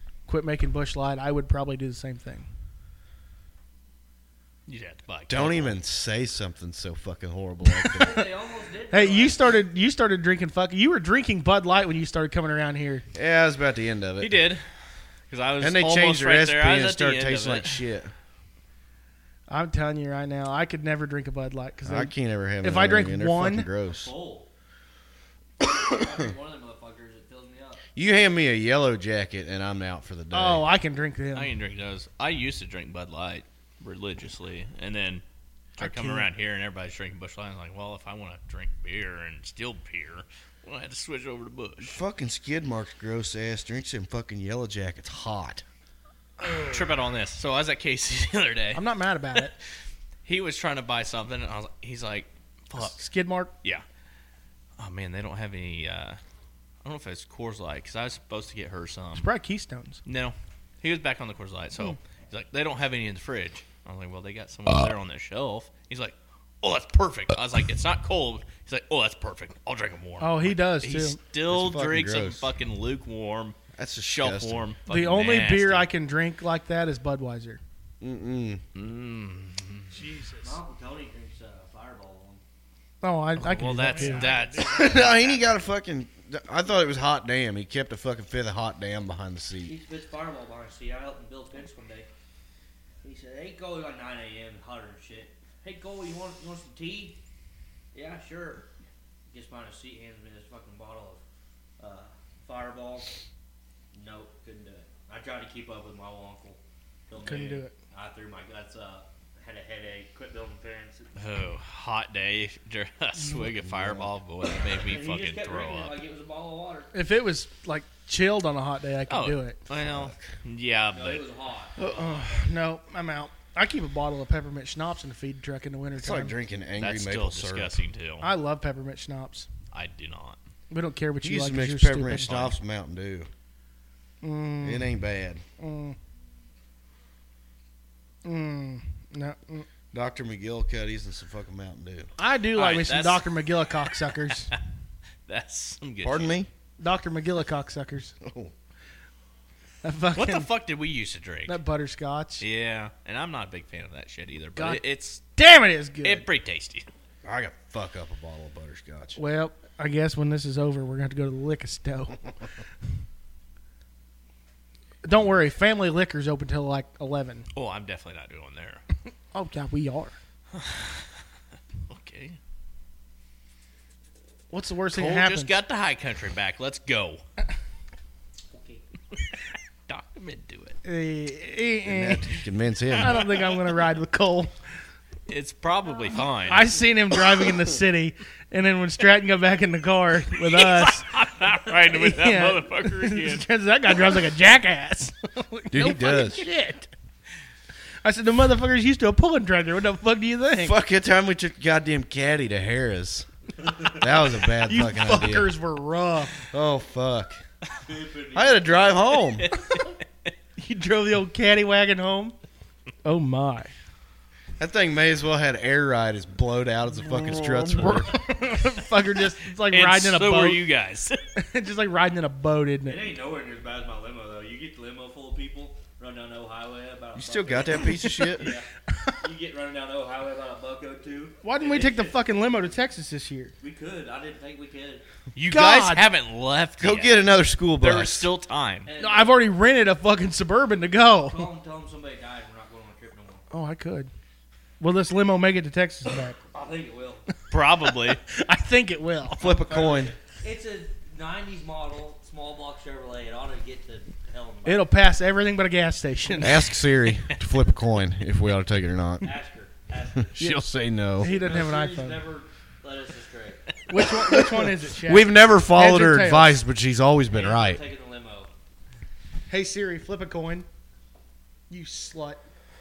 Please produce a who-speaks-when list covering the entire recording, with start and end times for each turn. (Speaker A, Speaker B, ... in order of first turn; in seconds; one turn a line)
Speaker A: 0.3-2.5
Speaker B: 4.7-5.8
Speaker C: 5.3-8.3
Speaker D: 7.9-9.7
Speaker A: 8.9-13.0
Speaker C: 13.1-14.4
Speaker B: 14.2-14.6
Speaker B: 15.3-17.8
Speaker C: 15.6-18.1
Speaker A: 19.5-23.7
Speaker C: 21.8-24.1
Speaker D: 23.8-24.5
Speaker D: 25.6-27.8
Speaker C: 27.9-30.7
Speaker A: 30.3-31.5
Speaker B: 31.3-35.2
Speaker A: 35.8-36.3
Speaker B: 35.8-42.0
Speaker C: 41.8-45.6
Speaker E: 46.4-46.8
Speaker B: 46.6-48.8
Speaker A: 48.7-49.5
Speaker B: 50.2-53.0
Speaker A: 52.8-53.5
Speaker B: 54.8-56.2
Speaker B: 56.8-59.3
Speaker A: 59.2-60.0
Speaker B: 60.0-75.9
Speaker A: 70.2-71.2
Speaker C: 71.5-72.4
Speaker C: 73.8-74.7
Speaker A: 74.9-77.6
Speaker C: 78.0-78.6
Speaker B: 78.7-79.9
Speaker E: 79.9-80.6
Speaker D: 80.4-82.4
Speaker A: 83.0-84.3
Speaker B: 83.4-84.8
Speaker E: 83.7-85.2
Speaker D: 84.6-85.5
Speaker C: 84.7-89.7
Speaker D: 89.6-92.1
Speaker D: 93.0-97.2
Speaker D: 97.9-98.6
Speaker D: 99.3-101.2
Speaker D: 101.8-103.1
Speaker D: 103.9-111.2
Speaker A: 107.2-107.7
Speaker B: 111.2-116.0
Speaker C: 113.5-114.1
Speaker D: 114.5-116.9
Speaker A: 116.9-119.6
Speaker B: 119.1-121.2
Speaker C: 119.8-120.2
Speaker D: 120.9-121.8
Speaker C: 121.8-122.3
Speaker A: 121.8-126.3
Speaker C: 126.0-127.8
Speaker B: 126.8-128.3
Speaker A: 128.2-129.5
Speaker B: 129.7-130.4
Speaker A: 130.7-132.5
Speaker C: 131.2-133.3
Speaker A: 134.2-134.9
Speaker C: 134.6-135.4
Speaker A: 135.6-136.0
Speaker A: 138.2-139.7
Speaker C: 139.9-142.1
Speaker A: 142.2-144.5
Speaker B: 142.5-143.3
Speaker B: 145.3-146.3
Speaker C: 146.0-146.5
Speaker A: 146.8-148.1
Speaker C: 148.2-148.5
Speaker A: 149.8-150.5
Speaker B: 150.1-151.6
Speaker A: 151.5-152.4
Speaker B: 152.4-155.2
Speaker A: 154.6-154.8
Speaker A: 155.3-156.2
Speaker B: 156.0-156.8
Speaker C: 157.2-159.2
Speaker A: 159.2-162.2
Speaker A: 165.0-167.5
Speaker B: 167.5-168.8
Speaker A: 169.3-170.1
Speaker B: 170.5-171.1
Speaker B: 171.9-172.4
Speaker A: 174.5-175.5
Speaker B: 174.9-177.2
Speaker D: 178.5-178.8
Speaker B: 179.9-180.8
Speaker A: 180.8-182.3
Speaker C: 181.8-183.3
Speaker A: 183.0-184.5
Speaker B: 185.3-186.7
Speaker A: 186.5-191.1
Speaker B: 190.4-193.4
Speaker A: 191.8-196.9
Speaker C: 195.7-196.4
Speaker A: 198.0-200.8
Speaker C: 200.6-203.3
Speaker C: 203.8-205.5
Speaker A: 204.6-206.4
Speaker C: 206.5-207.4
Speaker D: 207.8-209.2
Speaker C: 208.3-209.5
Speaker B: 209.2-209.9
Speaker A: 210.6-212.3
Speaker A: 213.0-213.7
Speaker C: 214.6-218.2
Speaker A: 217.3-220.6
Speaker B: 219.6-221.2
Speaker A: 221.3-223.0
Speaker D: 222.8-228.7
Speaker C: 227.2-228.5
Speaker D: 229.2-232.2
Speaker A: 231.4-233.5
Speaker D: 233.6-235.0
Speaker B: 235.3-238.9
Speaker A: 235.5-236.0
Speaker C: 236.8-238.3
Speaker D: 238.8-239.4
Speaker A: 239.0-241.5
Speaker D: 241.2-243.4
Speaker A: 243.5-244.1
Speaker A: 244.8-246.4
Speaker D: 246.4-247.2
Speaker B: 247.5-248.2
Speaker A: 248.3-249.5
Speaker C: 249.3-250.1
Speaker D: 249.4-254.9
Speaker A: 254.6-256.7
Speaker C: 256.4-259.3
Speaker B: 257.2-257.6
Speaker D: 259.2-260.4
Speaker C: 260.2-261.3
Speaker A: 261.2-262.2
Speaker D: 261.2-263.6
Speaker A: 263.9-266.6
Speaker C: 264.2-267.8
Speaker D: 267.3-268.5
Speaker A: 269.5-270.6
Speaker A: 271.7-272.4